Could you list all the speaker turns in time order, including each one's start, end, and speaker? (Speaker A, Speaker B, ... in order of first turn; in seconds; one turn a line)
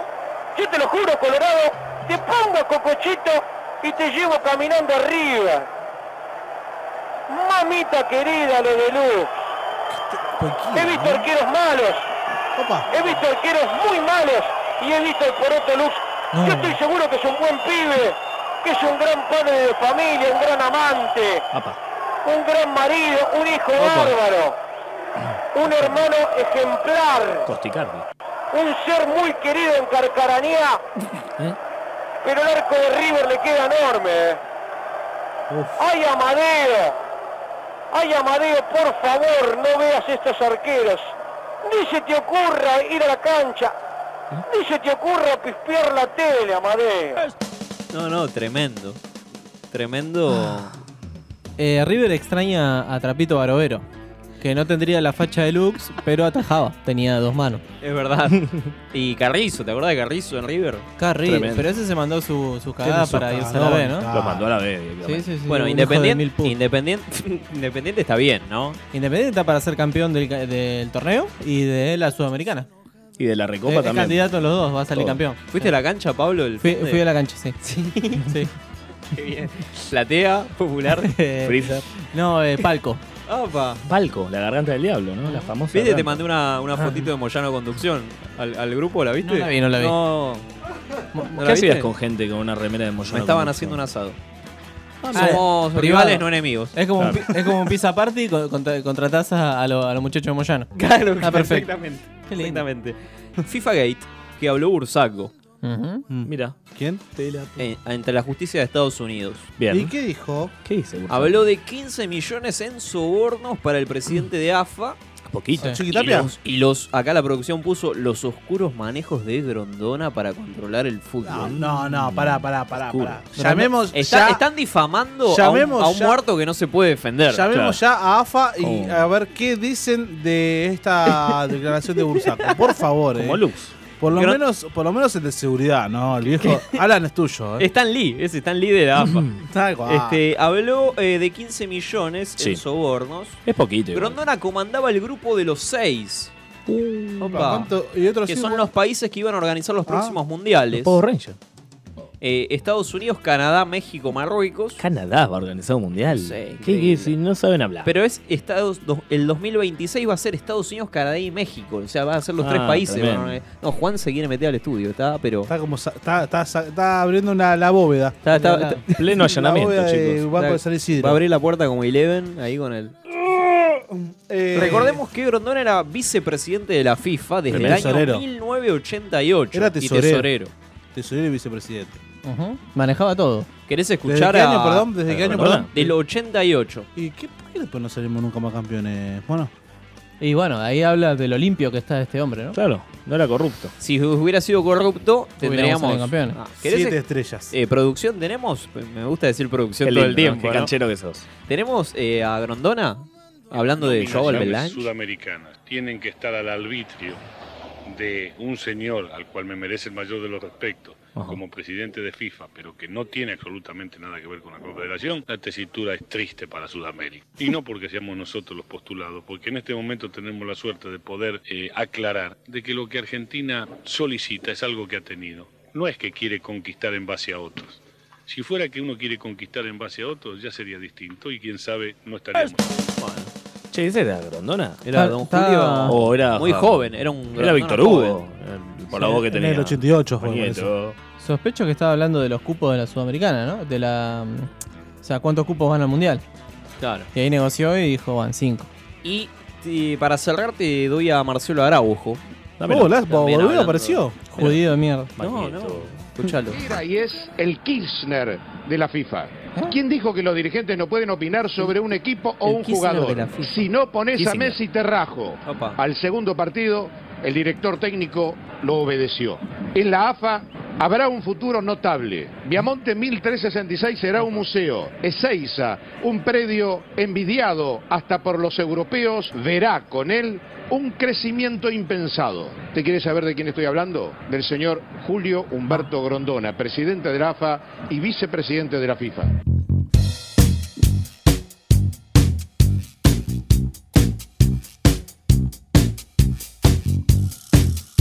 Speaker A: 0.6-5.7
Speaker A: 7.3-9.3
Speaker B: 9.9-11.2
Speaker A: 10.7-12.1
Speaker B: 12.6-12.9
Speaker A: 12.9-21.4
Speaker C: 16.3-16.8
Speaker D: 21.5-21.8
Speaker A: 22.2-24.6
Speaker E: 23.8-24.1
Speaker A: 25.5-27.5
Speaker D: 27.5-28.1
Speaker A: 28.5-30.8
Speaker A: 32.2-34.4
Speaker B: 35.5-35.8
Speaker A: 35.8-37.0
Speaker A: 37.9-43.8
Speaker A: 44.5-47.2
Speaker E: 47.9-49.0
Speaker E: 49.7-50.8
Speaker C: 51.6-53.9
Speaker C: 54.4-57.6
Speaker E: 57.8-60.9
Speaker C: 61.0-64.1
Speaker D: 61.2-61.7
Speaker B: 62.8-64.5
Speaker D: 64.1-65.3
Speaker C: 65.0-66.6
Speaker E: 65.5-68.8
Speaker C: 68.9-72.7
Speaker D: 73.2-74.2
Speaker C: 73.7-75.7
Speaker D: 75.0-75.2
Speaker E: 75.5-77.0
Speaker C: 76.6-77.6
Speaker E: 77.6-78.4
Speaker C: 78.2-78.5
Speaker E: 79.1-81.2
Speaker C: 81.0-83.0
Speaker D: 81.5-81.9
Speaker E: 83.3-83.8
Speaker D: 83.9-86.2
Speaker C: 85.3-85.5
Speaker E: 85.7-90.5
Speaker C: 89.2-90.0
Speaker C: 91.1-91.4
Speaker E: 91.4-91.9
Speaker D: 91.4-93.8
Speaker E: 93.1-94.2
Speaker D: 95.0-95.4
Speaker E: 95.1-96.8
Speaker C: 95.1-101.7
Speaker D: 97.0-97.3
Speaker E: 100.8-105.3
Speaker C: 102.3-102.6
Speaker C: 105.6-106.0
Speaker B: 106.1-107.1
Speaker D: 106.2-106.6
Speaker D: 107.1-107.6
Speaker E: 107.6-109.5
Speaker D: 109.6-109.9
Speaker B: 109.7-110.5
Speaker D: 110.6-111.5
Speaker E: 111.1-115.0
Speaker D: 115.3-115.8
Speaker B: 115.6-116.3
Speaker E: 115.9-121.6
Speaker B: 121.2-124.4
Speaker D: 121.5-123.3
Speaker C: 123.4-123.7
Speaker E: 123.9-127.5
Speaker B: 125.3-126.2
Speaker B: 127.3-133.4
Speaker D: 127.5-127.8
Speaker D: 128.6-129.1
Speaker E: 132.2-132.7
Speaker D: 133.1-133.8
Speaker B: 134.0-137.7
Speaker E: 134.1-134.4
Speaker E: 136.4-136.8
Speaker E: 137.6-139.3
Speaker D: 139.0-139.4
Speaker B: 139.4-140.2
Speaker E: 139.9-146.3
Speaker D: 143.4-144.2
Speaker D: 146.7-147.4
Speaker E: 147.2-147.7
Speaker B: 147.3-148.7
Speaker E: 148.3-151.0
Speaker B: 149.9-150.2
Speaker D: 150.7-151.4
Speaker E: 152.2-154.8
Speaker D: 154.8-157.9
Speaker E: 156.1-157.1
Speaker E: 157.8-165.5
Speaker D: 162.4-163.4
Speaker B: 165.5-168.3
Speaker E: 168.2-168.9
Speaker C: 168.3-168.8
Speaker D: 168.9-170.3
Speaker B: 169.0-171.2
Speaker E: 170.3-172.9
Speaker B: 173.7-175.0
Speaker E: 174.5-180.5
Speaker B: 177.5-178.2
Speaker D: 177.5-177.9
Speaker B: 179.5-180.3
Speaker B: 180.9-182.0
Speaker C: 182.2-183.5
Speaker E: 183.7-186.9
Speaker B: 184.1-185.9
Speaker D: 185.1-185.7
Speaker B: 187.0-189.5
Speaker C: 190.2-192.6
Speaker D: 192.5-193.7
Speaker E: 193.8-197.0
Speaker C: 195.4-196.4
Speaker B: 196.6-197.5
Speaker E: 197.5-200.7
Speaker D: 199.8-201.3
Speaker E: 201.5-204.9
Speaker F: 203.8-207.2
Speaker D: 204.1-204.5
Speaker F: 207.9-232.7
Speaker D: 211.2-211.4
Speaker E: 233.0-233.3
Speaker D: 233.7-234.8
Speaker E: 234.8-238.2
Speaker C: 234.9-236.0
Speaker D: 235.9-241.0
Speaker B: 238.9-240.7
Speaker C: 241.2-244.5
Speaker C: 245.0-246.2
Speaker E: 246.8-247.1
Speaker C: 247.1-248.7
Speaker E: 249.0-252.2
Speaker D: 252.6-252.9
Speaker B: 252.7-254.3
Speaker E: 253.0-254.2
Speaker C: 254.3-255.1
Speaker D: 255.2-255.9
Speaker E: 255.2-256.6
Speaker G: 256.5-289.3
Speaker E: 262.4-263.7
Speaker D: 264.2-264.5
Speaker E: 264.2-264.6
Speaker E: 265.5-265.8